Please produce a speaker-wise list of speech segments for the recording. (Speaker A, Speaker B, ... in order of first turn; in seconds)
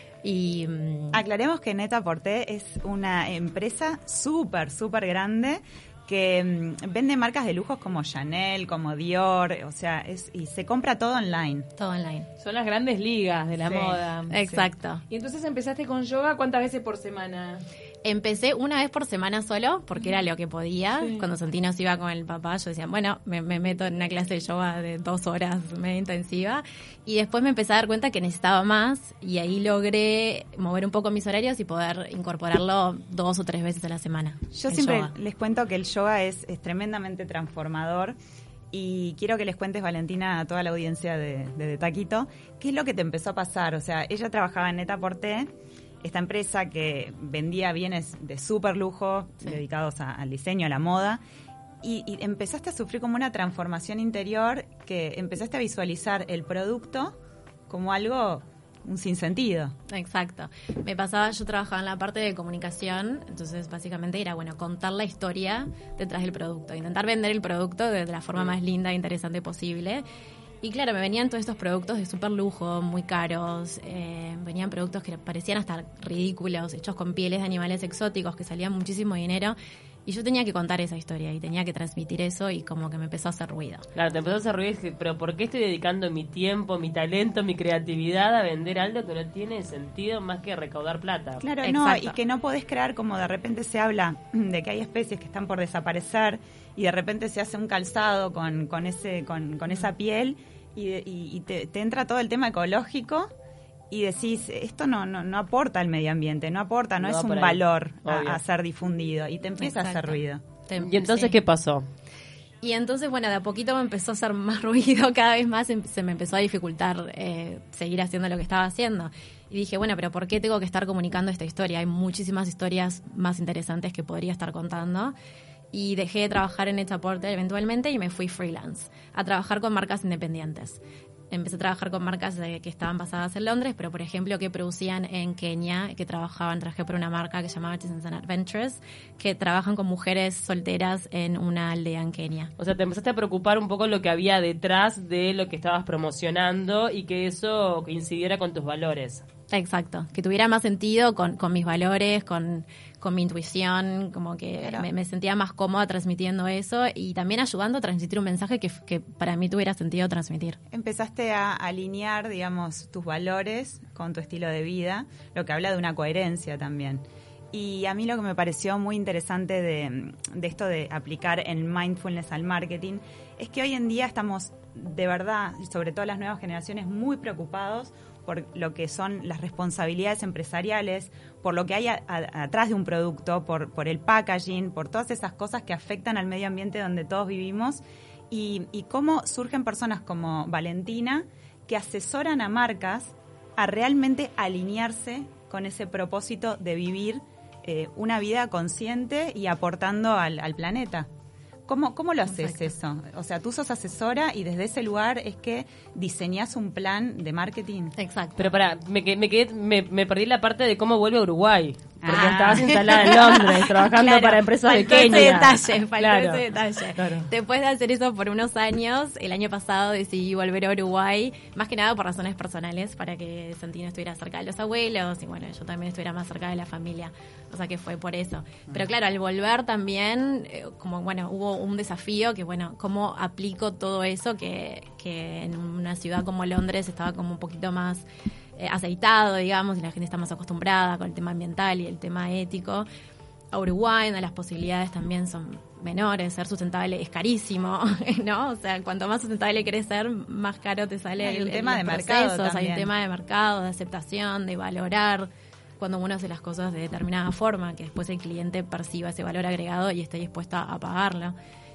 Speaker A: 0.2-1.2, 11.8-12.3, 14.3-15.0, 18.0-35.1, 59.9-70.0, 70.6-83.8, 91.6-92.2, 109.6-111.4, 112.6-125.2, 125.7-142.5, 149.5-160.6, 202.3-202.7, 208.0-208.5, 212.1-213.7, 214.7-238.1, 238.6-242.9, 243.5-261.4
Speaker B: 1.1-11.7, 13.6-14.1, 34.5-38.2, 38.7-45.5, 46.0-51.2, 51.8-57.2, 57.7-59.8, 91.4-103.3, 103.9-110.4, 154.6-154.9, 160.7-201.1, 201.7-207.9, 212.0-213.0, 214.0-215.5, 251.2-252.9
Speaker C: 12.4-17.6, 21.0-21.3
Speaker D: 84.0-91.4, 107.0-108.4, 110.8-111.9, 142.6-149.3, 208.4-216.4, 217.0-217.3